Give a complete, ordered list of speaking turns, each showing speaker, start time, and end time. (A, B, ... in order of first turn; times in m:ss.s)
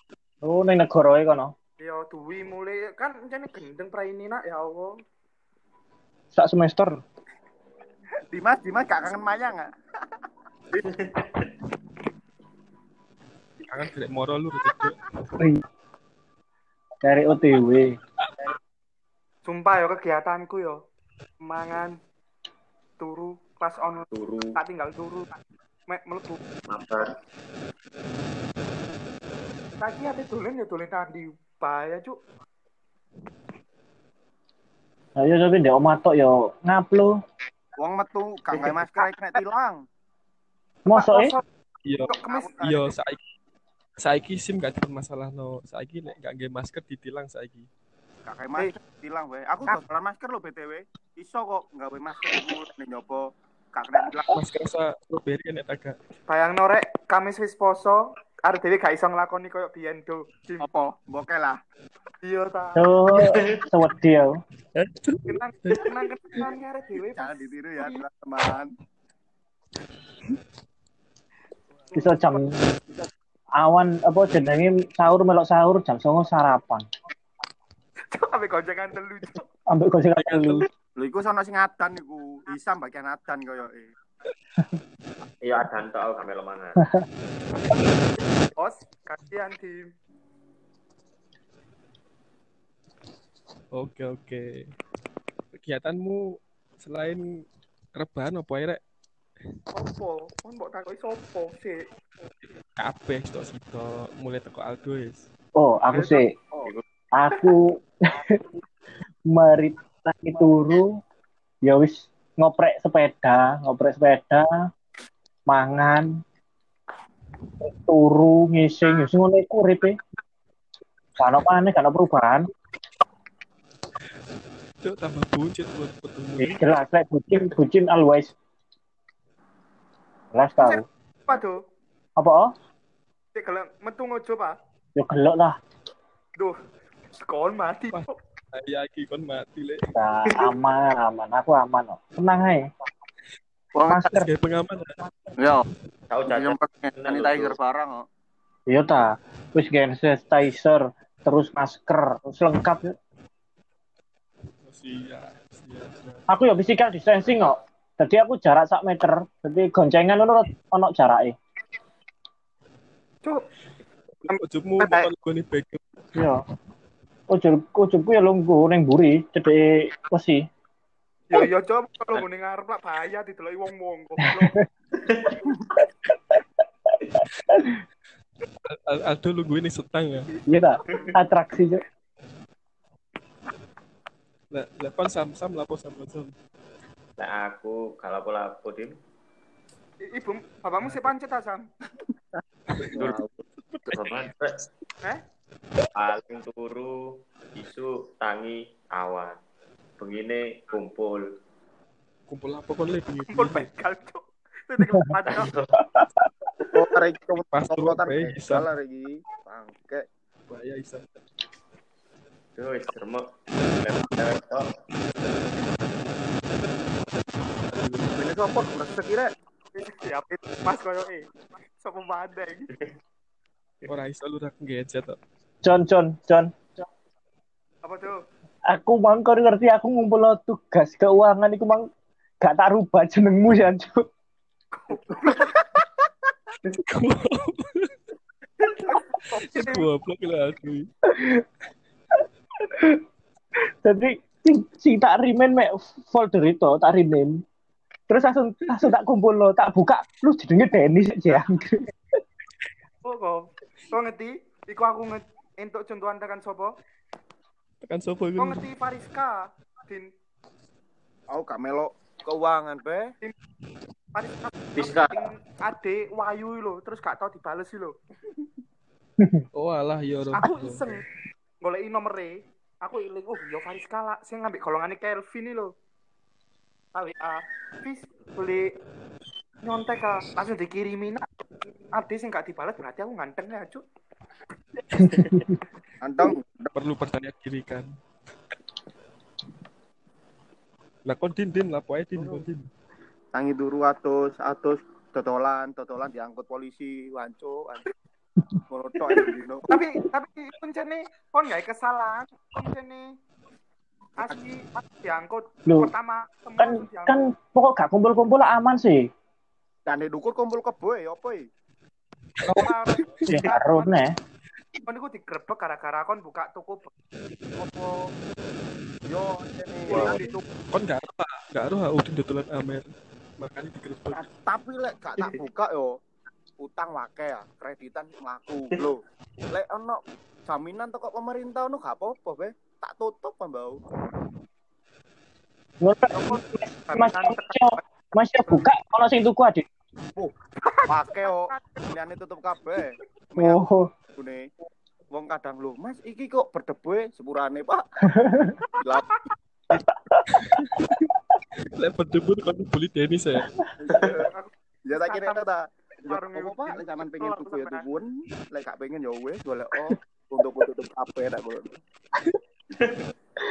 0:00.4-0:01.5 A
0:01.8-0:04.9 B
0:06.3-0:07.0 A
0:08.3-0:09.7 C
0:10.8-0:11.5 D
0:13.7-0:15.0 E
0:17.0-0:17.9 A
0:19.4-0:20.8 B
0:21.4-0:21.9 B
0:23.0-0:25.3 B
0:24.1-0:24.6 D
0:25.9-0:26.4 B
0:26.7-0:27.1 D
0:29.8-0:32.1 B
0:35.2-0:37.2 A
0:37.8-0:39.8 C
0:38.6-0:39.1 B
0:40.8-0:41.4 A
0:40.9-0:41.4 B
0:41.8-0:43.2 E
0:42.0-0:42.6 B
0:42.1-0:42.9 C
0:44.0-0:47.6 E
0:48.2-0:54.3 C
0:54.3-0:56.0 E
0:56.3-1:00.7 B
1:00.6-1:01.6 C
1:02.2-1:02.8 B
1:02.8-1:04.4 A
1:03.2-1:03.6 D
1:04.8-1:06.5 E
1:05.3-1:07.9 B
1:07.2-1:08.7 C
1:11.9-1:12.5 A
1:13.6-1:16.8 A
1:18.1-1:19.4 B
1:19.7-1:20.6 A
1:20.2-1:20.7 E
1:21.0-1:23.9 C
1:25.4-1:26.8 D
1:28.5-1:29.9 B
1:33.7-1:34.7 E
1:35.5-1:37.4 E
1:37.9-1:38.8 E
1:39.7-1:41.8 B
1:42.8-1:45.3 E
1:45.5-1:46.3 A
1:45.9-1:46.2 B
1:47.1-1:48.4 A
1:49.3-1:51.0 A
1:51.6-1:54.7 A
1:55.5-1:56.2 A
1:57.6-2:00.0 A
2:01.2-2:02.5 A
2:04.8-2:06.6 E
2:06.4-2:08.3 A
2:10.3-2:10.8 A
2:10.6-2:11.6 B
2:12.2-2:12.5 A
2:13.3-2:14.5 B
2:15.0-2:15.6 A
2:17.3-2:18.1 B
2:17.9-2:19.8 E
2:20.0-2:22.7 A
2:23.7-2:24.1 C
2:23.9-2:24.3 A
2:24.1-2:25.0 E
2:25.4-2:25.7 C
2:26.1-2:27.6 D
2:26.2-2:28.0 C
2:28.7-2:33.0 A
2:34.6-2:36.2 E
2:36.3-2:41.4 A
2:44.2-2:45.1 B
2:44.3-2:45.8 E
2:46.1-2:46.4 A
2:47.3-2:50.4 A
2:51.3-2:54.5 B
2:55.0-2:55.4 D
2:58.6-3:00.3 E
3:00.5-3:01.8 A
3:04.5-3:06.3 E
3:07.2-3:08.9 D
3:10.1-3:11.6 B
3:12.9-3:14.6 D
3:15.9-3:16.9 D
3:17.5-3:19.4 D
3:20.0-3:21.2 D
3:22.3-3:23.7 E
3:23.3-3:25.5 B
3:25.2-3:25.7 D
3:25.8-3:26.2 A
3:26.7-3:30.0 C
3:27.5-3:28.7 E
3:30.5-3:31.1 E
3:32.6-3:33.2 D
3:33.8-3:34.7 D
3:37.7-3:38.2 E
3:38.2-3:39.3 C
3:39.8-3:42.7 B
3:43.9-3:45.2 E
3:45.6-3:46.8 A
3:47.8-3:48.1 B
3:48.7-3:51.9 A
3:52.4-3:54.1 A
3:54.7-3:55.8 B
3:56.7-3:57.9 E
3:58.9-3:59.9 B
3:59.5-4:00.9 E
4:01.1-4:01.4 A
4:02.7-4:03.0 A
4:03.8-4:07.4 A
4:08.1-4:11.9 A
4:13.0-4:16.7 B
4:17.8-4:18.6 E
4:18.4-4:20.1 B
4:21.3-4:23.1 C
4:24.1-4:27.9 B
4:24.8-4:25.2 D
4:29.5-4:31.0 E
4:30.3-4:31.0 B
4:31.6-4:35.7 B
4:36.9-4:38.7 B
4:39.6-4:41.2 B
4:41.9-4:43.8 B
4:44.9-4:45.4 E
4:46.0-4:46.7 C
4:46.7-4:47.9 E
4:51.0-4:52.7 E
4:53.3-4:57.8 C
4:58.7-4:59.6 C
4:59.7-5:03.0 B
5:04.2-5:07.2 B
5:05.6-5:05.9 A
5:06.6-5:09.1 A
5:09.8-5:11.4 C
5:12.5-5:13.4 E
5:12.5-5:14.0 B
5:13.3-5:14.1 A
5:14.8-5:16.9 B
5:19.1-5:20.2 C
5:19.9-5:20.4 B
5:19.9-5:24.2 E
5:24.1-5:25.9 C
5:26.6-5:33.8 C
5:35.8-5:39.6 A
5:36.1-5:37.8 B
5:40.6-5:41.8 B
5:40.9-5:43.6 C
5:43.4-5:43.9 A
5:44.1-5:44.4 C
5:45.1-5:47.8 C
5:48.2-5:48.5 A
5:50.3-5:51.1 E
5:51.8-5:53.5 E
5:53.9-5:54.3 C
5:54.2-5:55.4 B
5:54.9-6:01.8 C
5:56.0-5:57.8 B
6:02.8-6:03.1 D